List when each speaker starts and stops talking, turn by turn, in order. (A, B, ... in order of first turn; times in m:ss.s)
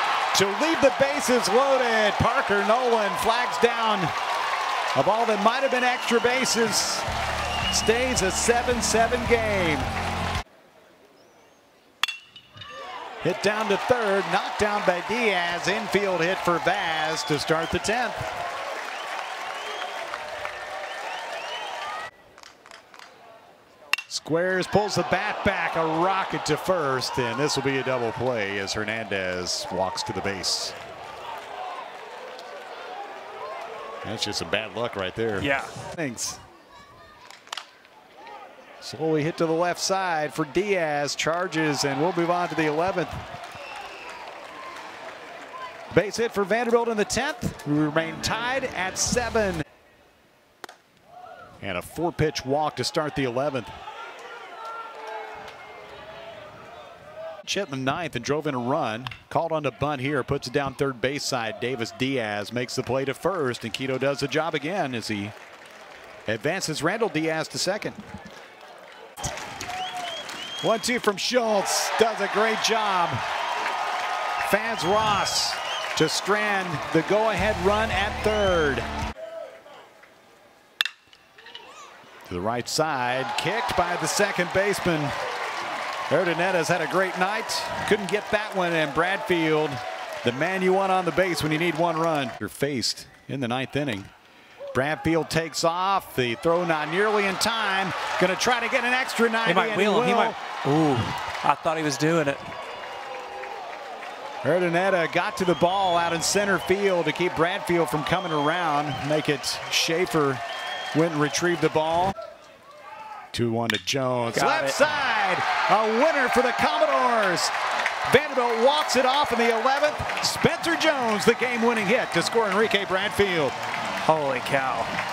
0:00.3-0:04.1 A
0:05.0-0:07.1 A
0:07.7-0:09.9 A
0:13.2-0:18.2 A
0:24.1-0:30.8 A
0:34.0-0:36.4 A
0:35.4-0:35.7 B
0:38.8-0:43.2 A
0:45.9-0:49.6 A
0:51.6-0:53.7 A
0:57.4-1:05.4 A
1:06.3-1:08.0 A
1:10.6-1:13.2 A
1:14.4-1:18.9 A
1:22.3-1:25.2 A
1:26.1-1:34.1 A
1:34.7-1:40.4 A
1:39.4-1:42.5 B
1:44.4-1:52.2 A
1:53.3-1:57.5 A
1:54.3-1:54.8 B
1:58.1-2:03.6 A
2:04.0-2:04.9 B